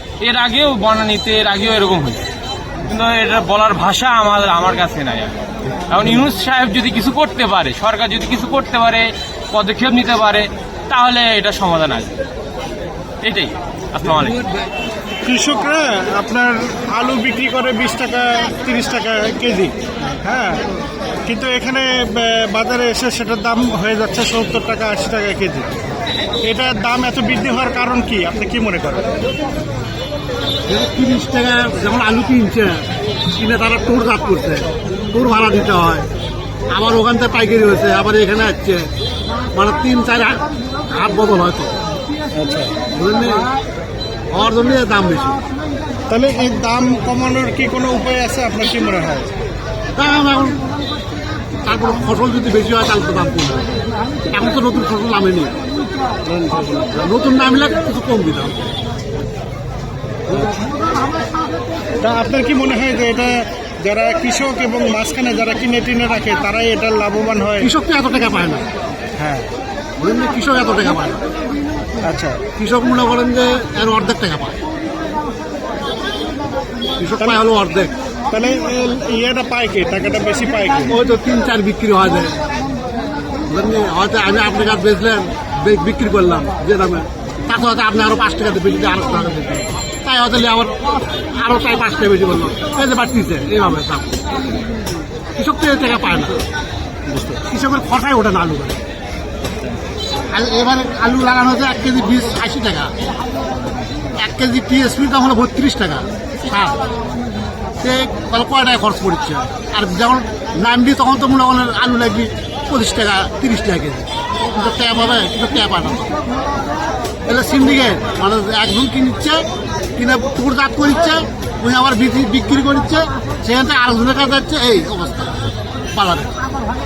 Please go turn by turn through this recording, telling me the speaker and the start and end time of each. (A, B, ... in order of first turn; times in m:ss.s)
0:00.2-0:02.2 A
0:02.8-0:12.2 A
0:13.2-0:14.4 A
0:15.2-0:20.6 B
0:21.2-0:25.7 B
0:26.4-0:29.1 B
0:30.7-0:36.1 C
0:36.7-0:38.9 C
0:39.5-0:41.7 C
0:42.3-0:42.8 B
0:42.9-0:43.4 C
0:44.3-0:45.4 C
0:46.1-0:49.3 B
0:50.0-0:50.6 C
0:51.6-0:53.6 C
0:54.3-0:55.6 C
0:56.3-0:58.6 C
1:02.0-1:07.7 B
1:07.6-1:08.6 C
1:09.2-1:09.5 B
1:10.0-1:11.2 C
1:12.0-1:12.4 B
1:12.6-1:14.6 C
1:17.0-1:17.9 C
1:18.3-1:21.0 B
1:21.0-1:22.4 C
1:23.5-1:34.2 C
1:35.4-1:36.4 C
1:37.2-1:38.8 C
1:40.3-1:42.9 C
1:44.2-1:46.8 C
1:47.8-1:56.0 C
1:57.3-1:59.4 C
2:00.0-2:05.4 C
2:05.9-2:06.3 C